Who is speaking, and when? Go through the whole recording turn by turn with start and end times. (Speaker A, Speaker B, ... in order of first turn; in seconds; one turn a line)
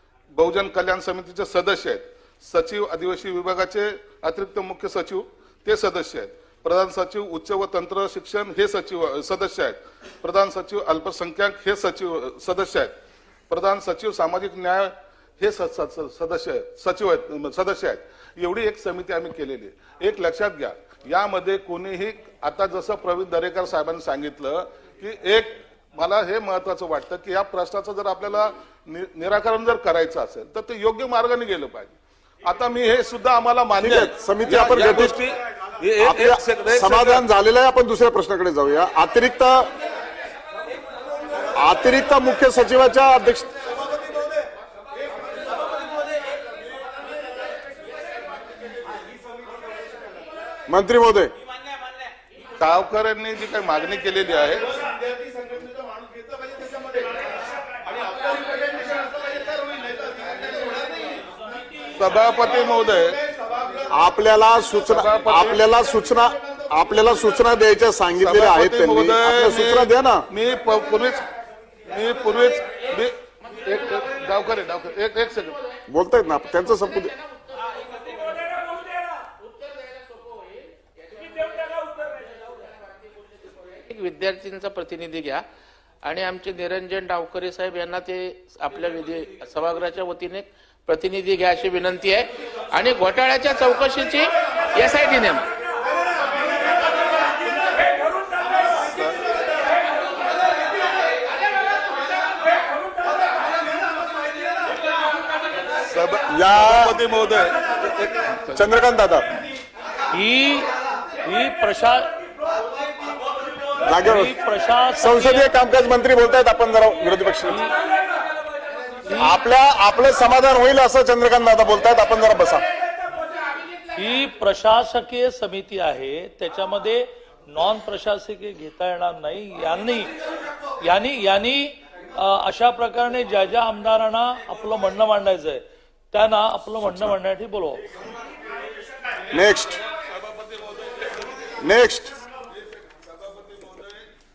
Speaker A: 0.3-12.9
Speaker A: 13.5-31.9
Speaker A: 32.4-37.3
Speaker B: 33.8-35.2
Speaker B: 36.0-39.7
Speaker B: 41.5-43.5
Speaker B: 50.7-51.3
Speaker A: 52.6-54.7
Speaker A: 62.0-63.2
Speaker B: 63.9-70.2
Speaker A: 64.8-65.6
Speaker A: 68.2-71.2
Speaker A: 71.9-75.6
Speaker B: 75.9-77.1
Speaker C: 83.9-85.4
Speaker C: 86.0-95.5
Speaker A: 98.8-99.2
Speaker A: 105.8-107.6
Speaker B: 106.3-107.0
Speaker B: 108.5-109.3
Speaker D: 110.1-112.1
Speaker B: 113.8-114.3
Speaker D: 114.0-115.5
Speaker B: 115.0-117.7
Speaker D: 117.5-117.7
Speaker B: 119.1-122.7
Speaker D: 123.9-130.1
Speaker D: 130.8-137.8
Speaker B: 139.3-139.8
Speaker B: 141.6-142.2
Speaker A: 142.5-144.1